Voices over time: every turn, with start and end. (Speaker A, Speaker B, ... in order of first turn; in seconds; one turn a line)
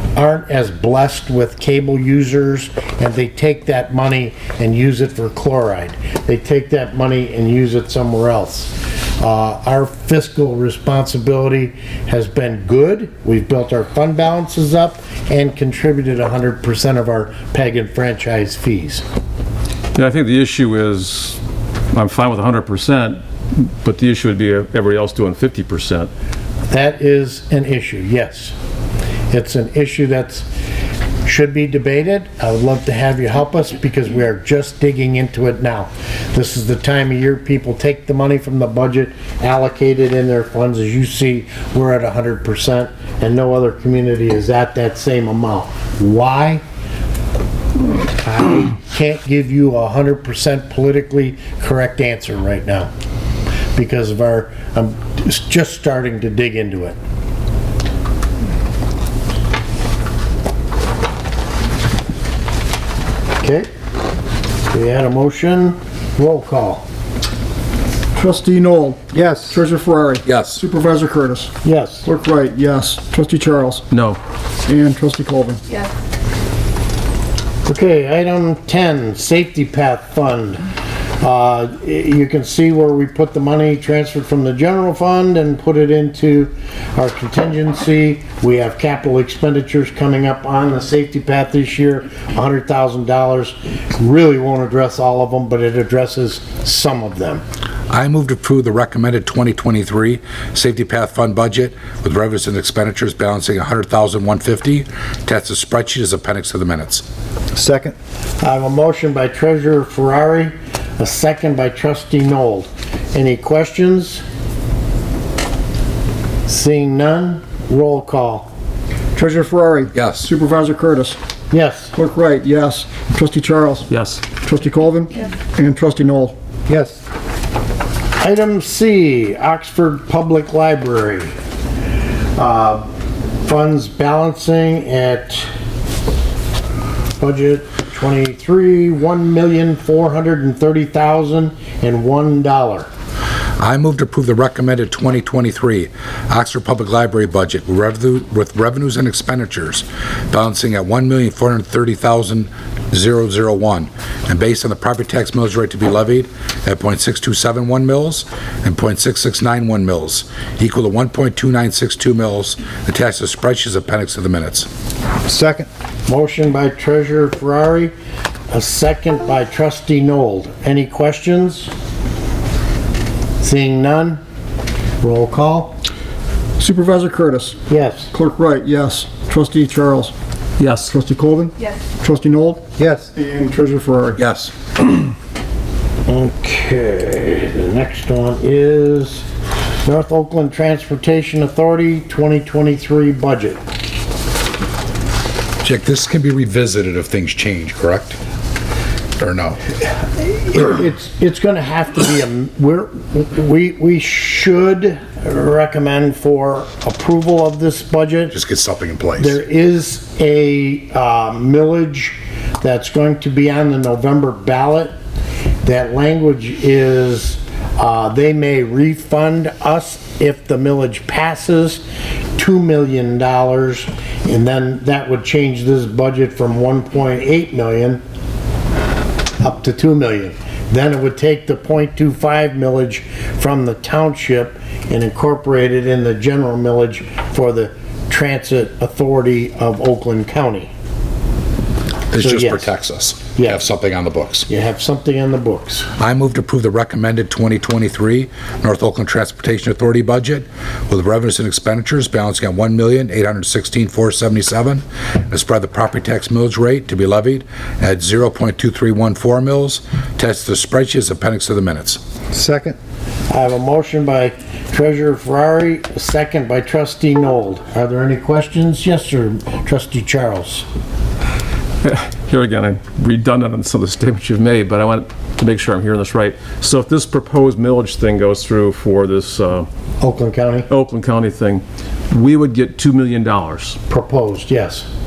Speaker A: 0.1-19.0
Speaker B: 19.9-21.4
Speaker B: 21.9-26.1
Speaker A: 26.7-28.5
Speaker A: 29.3-30.5
Speaker A: 31.2-46.6
Speaker A: 48.2-52.9
Speaker A: 53.7-57.0
Speaker A: 63.4-63.7
Speaker A: 64.7-66.8
Speaker C: 68.2-73.8
Speaker D: 70.2-70.6
Speaker A: 71.6-72.1
Speaker B: 73.9-74.2
Speaker C: 74.7-75.6
Speaker A: 77.7-80.6
Speaker A: 81.2-97.4
Speaker D: 97.9-107.0
Speaker A: 108.4-114.2
Speaker A: 116.5-118.5
Speaker C: 119.1-121.2
Speaker D: 119.9-120.3
Speaker A: 121.5-121.9
Speaker C: 121.9-126.3
Speaker B: 123.9-124.2
Speaker A: 128.2-131.3
Speaker A: 132.3-132.9
Speaker A: 133.4-135.5
Speaker A: 137.2-142.9
Speaker D: 143.6-164.7
Speaker C: 165.2-165.7
Speaker A: 166.1-167.9
Speaker A: 168.5-171.7
Speaker A: 173.4-174.2
Speaker A: 175.0-175.7
Speaker C: 176.6-180.1
Speaker A: 177.7-178.1
Speaker B: 180.6-180.9
Speaker C: 180.7-184.2
Speaker D: 184.2-184.5
Speaker A: 186.1-189.2
Speaker A: 189.8-193.6
Speaker D: 195.6-198.2
Speaker D: 199.2-199.6
Speaker A: 200.1-208.4
Speaker D: 208.3-209.4
Speaker A: 209.2-214.9
Speaker A: 215.6-221.8
Speaker A: 222.4-228.0
Speaker A: 229.4-240.7
Speaker D: 242.1-244.5
Speaker A: 242.2-242.7
Speaker A: 243.3-243.6
Speaker A: 244.5-245.9
Speaker D: 246.0-262.0
Speaker C: 262.3-262.8
Speaker A: 263.3-270.6
Speaker B: 271.8-279.7
Speaker A: 280.0-280.7
Speaker B: 280.7-283.8
Speaker A: 283.9-284.9